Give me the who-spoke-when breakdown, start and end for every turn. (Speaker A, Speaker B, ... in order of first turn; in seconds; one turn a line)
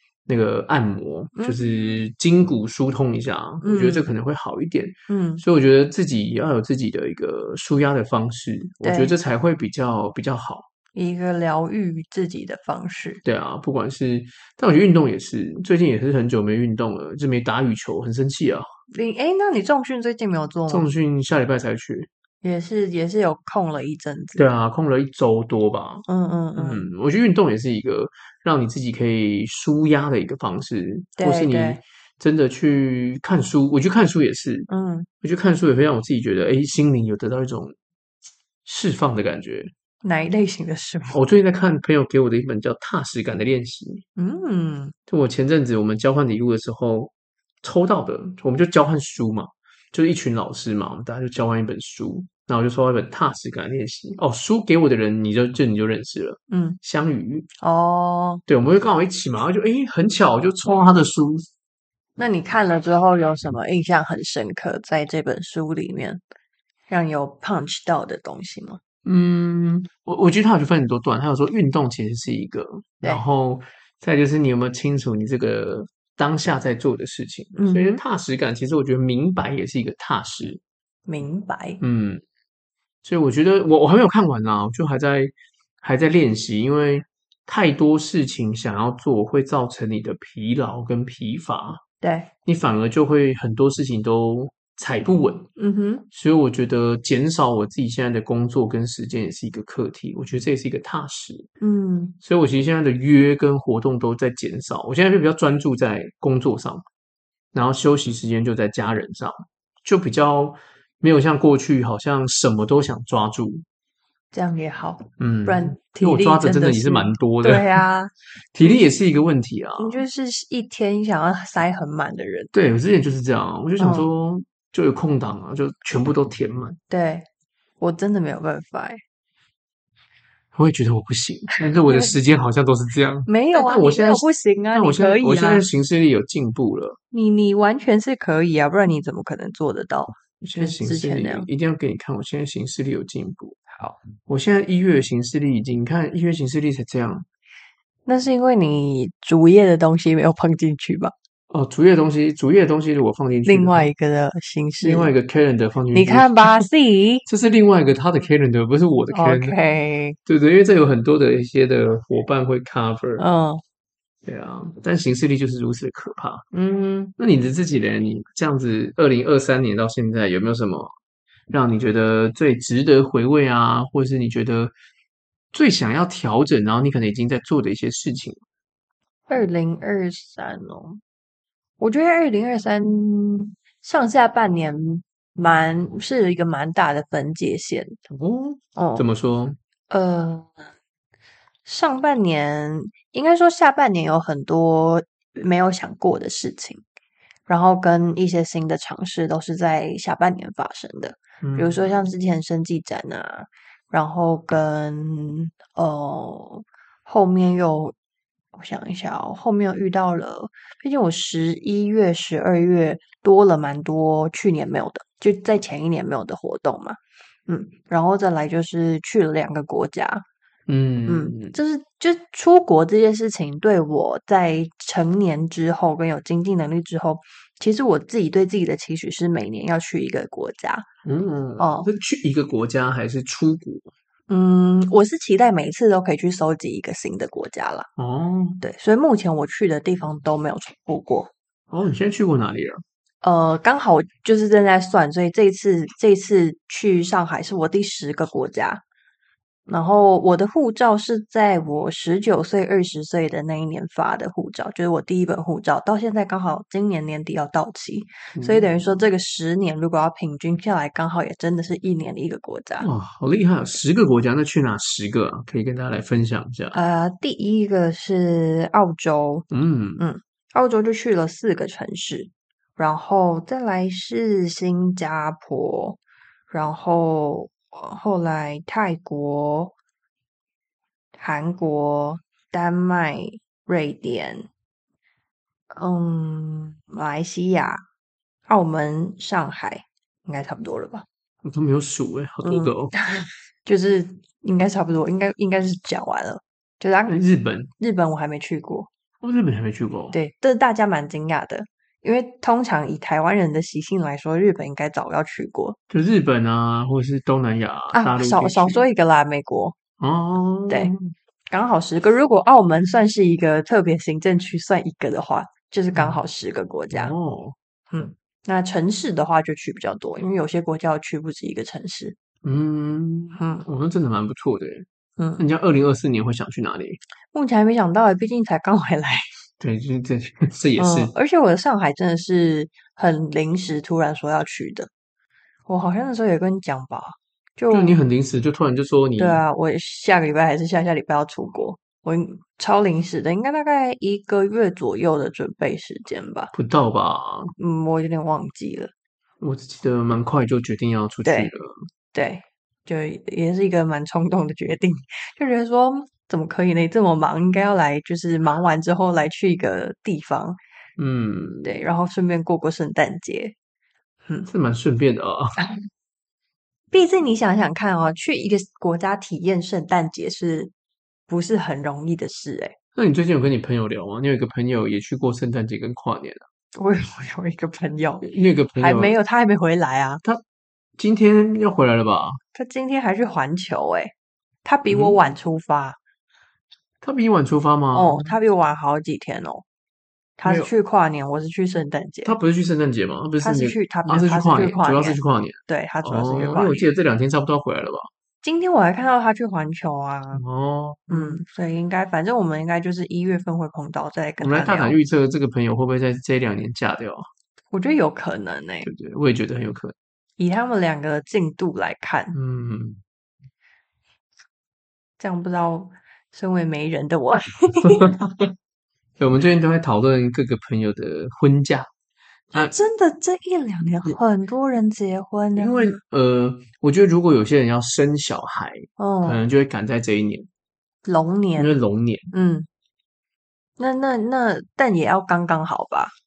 Speaker A: 0.3-10.7
Speaker B: 3.6-4.1
Speaker B: 5.1-5.4
Speaker B: 8.8-9.2
Speaker B: 10.9-13.2
Speaker A: 13.2-18.7
Speaker B: 18.9-20.9
Speaker A: 20.7-22.1
Speaker B: 22.4-24.5
Speaker A: 24.4-26.0
Speaker B: 26.1-26.8
Speaker A: 26.6-34.7
Speaker B: 31.2-31.8
Speaker B: 34.7-35.1
Speaker A: 35.2-37.7
Speaker A: 38.6-39.7
Speaker B: 40.0-41.2
Speaker A: 41.1-44.0
Speaker B: 44.2-44.9
Speaker A: 45.1-57.5
Speaker B: 56.5-56.8
Speaker B: 57.6-58.4
Speaker A: 58.5-61.5
Speaker B: 62.2-66.2
Speaker B: 66.9-68.8
Speaker A: 69.0-80.6
Speaker B: 77.5-78.0
Speaker B: 81.1-81.8
Speaker A: 81.8-82.2
Speaker A: 83.0-91.8
Speaker B: 92.0-92.3
Speaker A: 92.5-95.5
Speaker B: 95.6-96.0
Speaker A: 96.1-101.5
Speaker B: 101.6-102.2
Speaker A: 102.2-106.8
Speaker A: 107.5-113.6
Speaker B: 114.3-118.1
Speaker A: 115.2-117.8
Speaker A: 118.5-120.0
Speaker B: 119.8-122.5
Speaker A: 122.5-126.8
Speaker B: 123.8-124.1
Speaker B: 126.9-127.2
Speaker B: 127.8-129.0
Speaker A: 130.5-137.0
Speaker B: 131.8-132.1
Speaker B: 133.3-135.6
Speaker B: 137.1-141.5
Speaker A: 140.4-143.6
Speaker B: 143.7-144.0
Speaker A: 144.3-147.2
Speaker B: 148.1-151.1
Speaker A: 151.5-153.9
Speaker B: 153.4-155.1
Speaker A: 154.8-156.7
Speaker B: 155.9-157.2
Speaker A: 157.3-159.6
Speaker B: 159.1-160.2
Speaker A: 160.2-163.2
Speaker B: 163.2-163.6
Speaker A: 164.2-166.5
Speaker B: 166.5-167.1
Speaker A: 167.2-170.9
Speaker A: 171.5-174.7
Speaker A: 175.5-178.4
Speaker B: 179.3-181.0
Speaker B: 181.8-188.0
Speaker A: 188.1-189.6
Speaker B: 188.8-189.0
Speaker B: 189.9-190.6
Speaker B: 191.7-196.8
Speaker B: 197.5-207.9
Speaker A: 201.4-201.8
Speaker B: 208.5-220.2
Speaker A: 220.7-221.6
Speaker B: 221.1-230.9
Speaker A: 231.0-233.9
Speaker B: 231.6-231.9
Speaker B: 234.3-237.9
Speaker A: 238.0-238.6
Speaker B: 238.6-241.3
Speaker A: 241.7-242.8
Speaker B: 243.2-248.8
Speaker B: 249.7-262.9
Speaker A: 258.3-258.7
Speaker A: 262.8-266.8
Speaker B: 266.7-269.4
Speaker A: 269.5-270.0
Speaker B: 270.0-279.7
Speaker B: 281.2-284.5
Speaker B: 285.7-287.8
Speaker B: 288.5-291.1
Speaker A: 291.4-292.9
Speaker B: 292.4-297.2
Speaker A: 297.1-297.7
Speaker B: 297.8-298.9
Speaker A: 299.2-300.1
Speaker B: 300.1-305.8
Speaker A: 305.9-308.8
Speaker B: 307.9-309.8
Speaker A: 310.0-311.1
Speaker B: 310.7-310.9
Speaker B: 311.5-317.1
Speaker A: 315.9-316.2
Speaker A: 316.9-317.6
Speaker B: 317.9-322.1
Speaker A: 322.4-324.9
Speaker B: 323.3-323.6
Speaker B: 325.2-325.4
Speaker A: 325.4-327.0
Speaker B: 327.3-329.3
Speaker A: 329.6-331.1
Speaker B: 330.8-334.9
Speaker B: 335.7-338.0
Speaker A: 337.7-339.4
Speaker B: 339.2-346.5
Speaker A: 346.5-347.5
Speaker B: 347.6-348.9
Speaker A: 349.4-351.9
Speaker B: 351.2-351.5
Speaker B: 352.1-360.6
Speaker A: 361.0-361.8
Speaker B: 361.6-363.5
Speaker A: 364.4-365.6
Speaker B: 366.9-370.7
Speaker B: 371.3-372.7
Speaker A: 372.9-376.4
Speaker B: 376.7-380.2
Speaker A: 378.2-379.1
Speaker A: 381.0-382.4
Speaker B: 382.5-384.1
Speaker B: 384.6-386.0
Speaker A: 384.9-385.2
Speaker A: 387.0-388.3
Speaker B: 387.9-389.6
Speaker B: 390.4-392.3
Speaker A: 390.4-390.7
Speaker A: 392.2-398.1
Speaker B: 393.4-396.9
Speaker B: 398.4-400.4
Speaker A: 400.3-401.4
Speaker B: 401.1-405.0
Speaker A: 404.4-407.3
Speaker B: 407.7-408.9
Speaker A: 408.8-409.9
Speaker B: 410.4-412.4
Speaker A: 412.3-413.0
Speaker B: 415.2-418.1
Speaker A: 417.8-418.5
Speaker A: 419.2-421.9
Speaker B: 422.5-426.0
Speaker A: 425.6-430.5
Speaker B: 429.0-429.4
Speaker B: 431.0-431.7
Speaker A: 431.6-432.3
Speaker B: 432.3-432.7
Speaker B: 433.8-436.1